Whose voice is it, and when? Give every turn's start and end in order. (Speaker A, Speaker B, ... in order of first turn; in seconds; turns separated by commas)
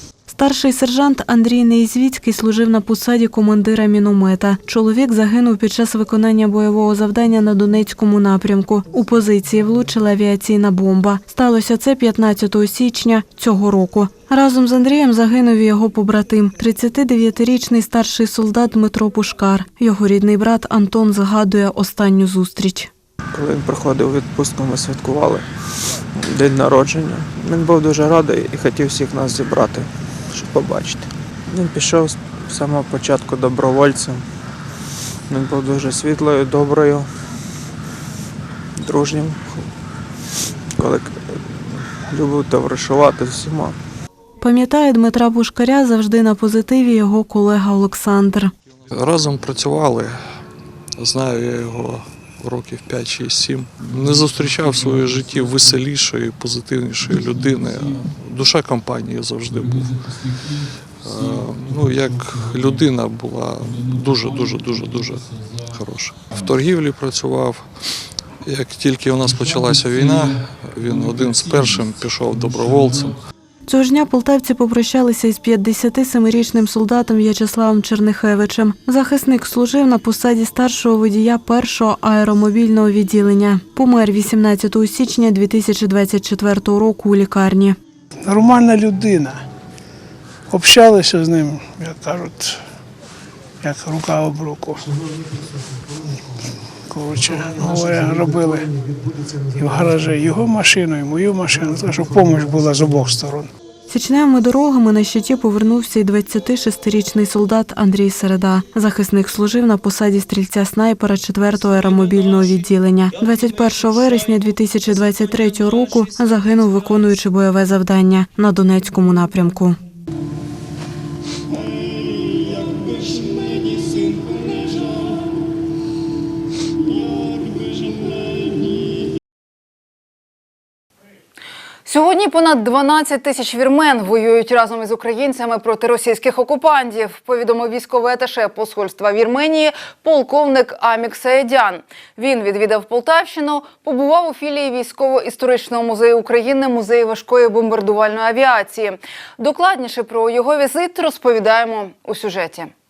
Speaker A: 0.3-22.9, Speaker B: 23.3-25.5, Speaker B: 26.1-34.3, Speaker B: 35.3-37.1, Speaker B: 38.8-39.7, Speaker B: 40.8-43.8, Speaker A: 44.4-48.5, Speaker C: 48.9-50.2, Speaker C: 51.0-73.2, Speaker A: 73.7-87.8, Speaker D: 88.3-89.3, Speaker D: 90.5-92.5, Speaker D: 93.6-94.8, Speaker D: 96.9-98.6, Speaker D: 99.6-103.5, Speaker A: 103.9-119.8, Speaker E: 131.9-152.7